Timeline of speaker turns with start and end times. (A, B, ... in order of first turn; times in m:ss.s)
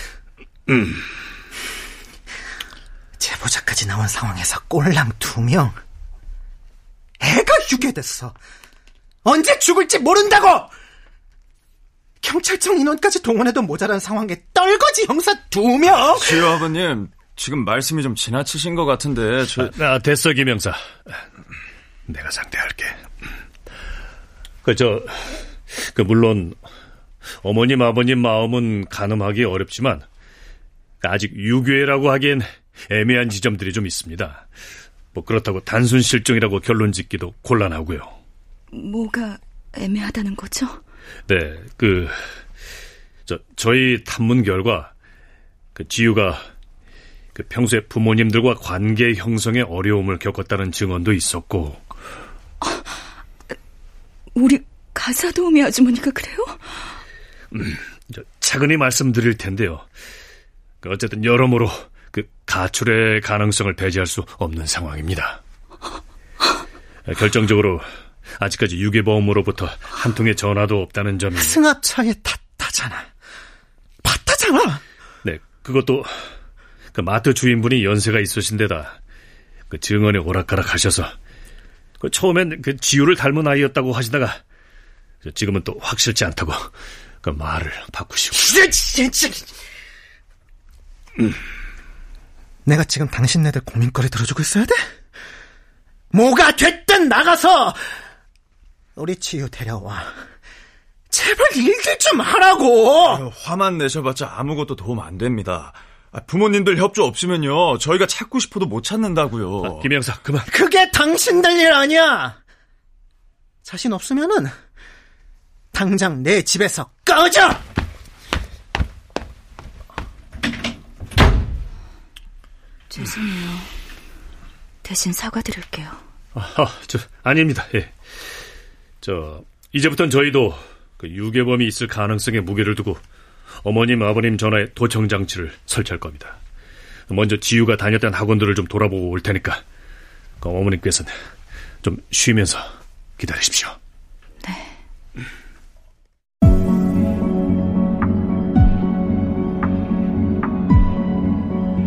0:00.7-0:01.0 A
0:03.2-0:05.8 B
0:07.2-0:08.4 B
0:09.2-0:10.7 B
0:12.2-0:16.5 B
0:16.0-0:19.7 C
0:19.5-0:21.1 A
0:22.1-0:23.0 A
0:24.6-0:26.6 A
0:27.4-0:30.1 A
0:31.0-0:34.5 A
0:35.1-0:38.2 A
0:38.7-0:40.8 D
0:41.3-0:42.2 A
0:43.3-0:44.9 A
0:45.8-0:46.5 A
0:47.4-0:51.8 A
0:52.6-0:52.9 D
0:54.4-0:56.8 D
0:57.5-0:59.9 A
1:00.8-1:05.4 A
1:07.1-1:07.9 A
1:08.4-1:11.6 A
1:11.4-1:13.1 B
1:14.0-1:14.8 B
1:15.2-1:16.1 A
1:16.9-1:19.0 A
1:19.7-1:21.1 A
1:22.0-1:24.4 A
1:25.2-1:26.7 A
1:27.2-1:28.6 A
1:28.3-1:29.5 B
1:32.6-1:34.8 B
1:36.1-1:37.8 B
1:39.0-1:40.2 B
1:41.1-1:43.2 B
1:43.0-1:49.9 C
1:49.6-1:50.5 A
1:50.5-1:52.4 B
1:53.6-1:54.5 B
1:55.7-1:57.6 B
2:02.9-2:03.7 D
2:04.8-2:06.0 D
2:06.4-2:07.9 A
2:09.0-2:13.0 A
2:13.6-2:16.4 A
2:17.1-2:19.6 A
2:20.4-2:21.1 A
2:21.8-2:23.8 A